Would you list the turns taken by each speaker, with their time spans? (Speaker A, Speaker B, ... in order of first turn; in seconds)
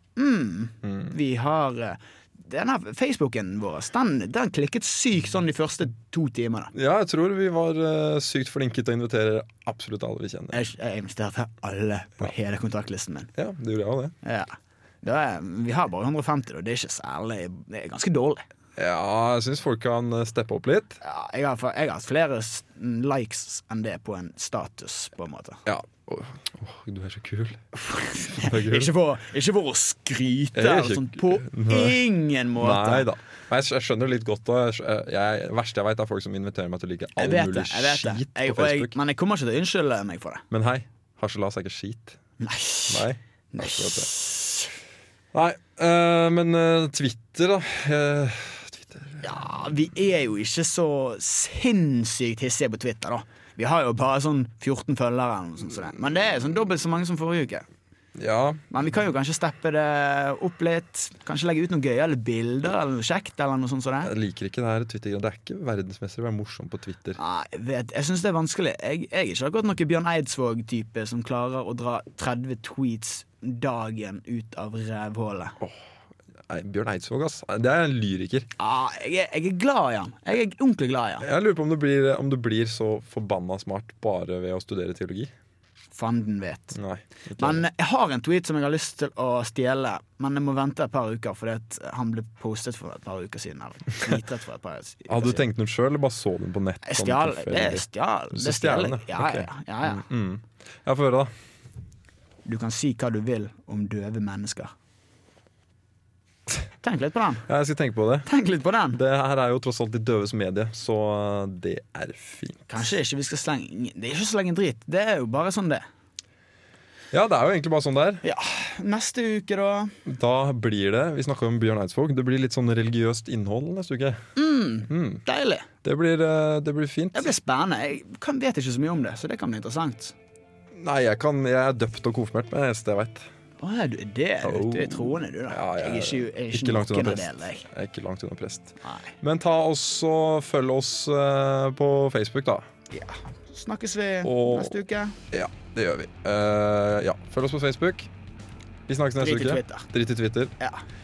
Speaker A: 0.2-6.7, 10.5-13.3, 14.2-18.4, 21.0-25.6, 27.7-33.1, 37.2-40.5, 42.4-44.7, 49.2-57.6, 58.7-64.1, 67.2-75.6, 78.6-81.3, 85.9-86.8, 87.4-95.4, 96.8-100.0, 102.4-104.7, 106.8-107.4, 108.2-109.0, 112.7-115.8, 118.2-119.9, 124.3-125.7, 127.1-130.1, 133.6-137.7, 138.8-139.1, 142.9-145.2, 149.2-149.9
Speaker B: 0.8-1.1, 6.7-10.7, 13.3-14.1, 18.8-21.0, 25.6-27.6, 28.4-28.9, 30.5-32.0, 32.6-39.0, 40.5-42.2, 42.9-44.1, 45.3-49.2, 58.1-58.6, 64.0-67.2, 76.5-78.5, 81.2-85.3, 86.7-87.6, 95.1-101.3, 107.5-108.3, 108.9-112.9, 117.1-118.2, 120.0-124.2, 124.9-125.2, 125.8-127.3, 130.7-133.3, 134.4-142.6, 144.2-144.7, 145.3-148.1, 148.9-150.5